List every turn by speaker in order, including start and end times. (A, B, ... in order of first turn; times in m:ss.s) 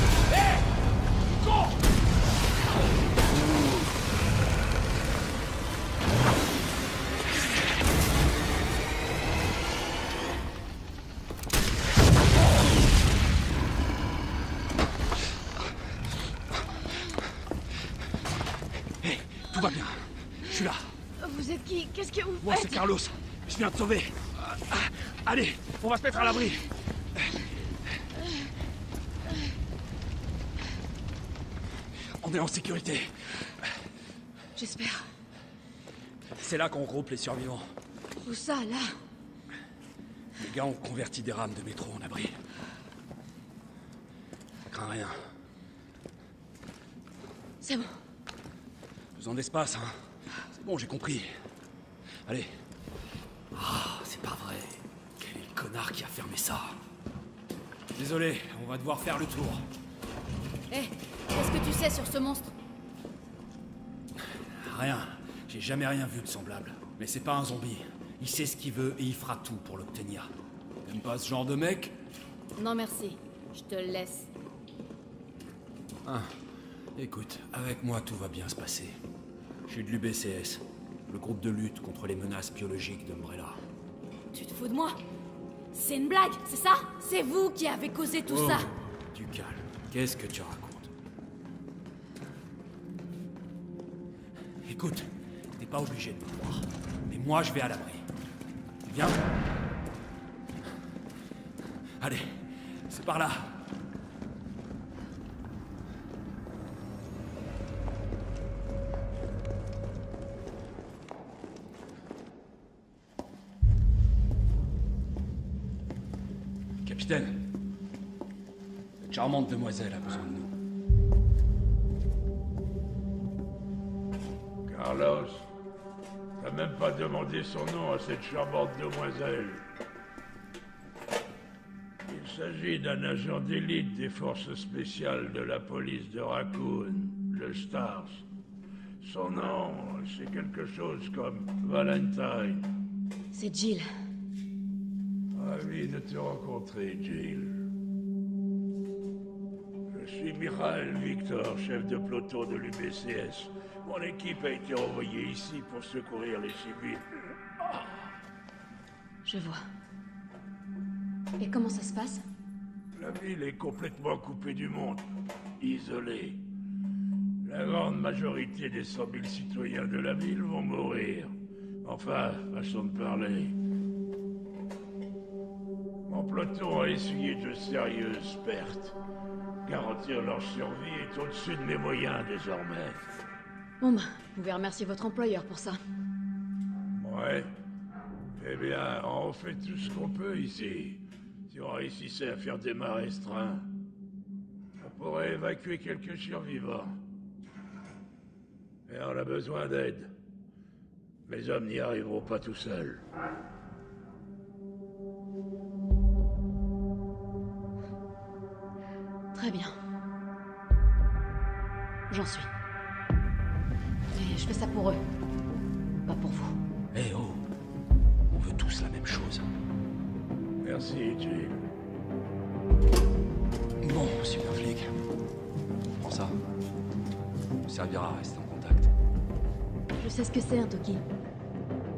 0:19.0-0:20.9 A
0:21.2-0:22.9 B
0:22.4-0:26.6 A
0:32.2-0:33.1 A
0:34.6-0:35.1 B
0:36.4-0:37.7 A
0:38.2-0:39.0 B
0:40.4-0:42.4 A
0:44.7-0:45.2 A
0:47.6-0:48.0 B
0:49.2-0:50.0 A
0:50.5-0:51.4 A
0:52.3-0:52.5 A
0:53.5-0:56.8 A
0:57.9-0:59.6 A
1:00.7-1:02.5 B
1:04.4-1:10.3 A
1:10.8-1:12.0 A
1:12.6-1:14.3 B
1:16.0-1:16.3 A
1:17.0-1:19.0 A
1:19.7-1:23.6 A
1:24.3-1:25.0 B
1:25.7-1:28.7 B
1:28.3-1:30.9 A
1:34.6-1:38.1 A
1:38.8-1:39.2 A
1:42.0-1:43.6 A
1:56.8-1:57.4 A
1:59.0-2:00.6 A
2:04.7-2:05.5 C
2:06.4-2:09.7 C
2:12.0-2:18.2 C
2:19.0-2:22.7 C
2:23.3-2:23.9 B
2:25.3-2:27.6 C
2:29.9-2:37.9 C
2:39.2-2:39.6 B
2:41.4-2:42.2 B
2:43.0-2:45.1 C
2:45.6-2:46.4 C
2:47.4-2:51.3 C
2:51.8-2:53.6 C
2:56.1-2:59.0 C
2:59.7-3:03.1 C
3:03.8-3:05.8 B
3:06.9-3:07.5 C
3:08.4-3:13.7 C
3:14.8-3:17.0 C
3:18.9-3:20.1 C
3:21.3-3:23.0 C
3:29.3-3:29.8 B
3:32.1-3:32.5 B
3:34.1-3:35.0 B
3:36.1-3:36.6 B
3:36.9-3:37.4 A
3:38.3-3:39.5 A
3:40.6-3:41.6 C
3:43.8-3:45.0 A
3:46.0-3:46.4 A
3:47.6-3:48.9 A
3:50.0-3:51.0 B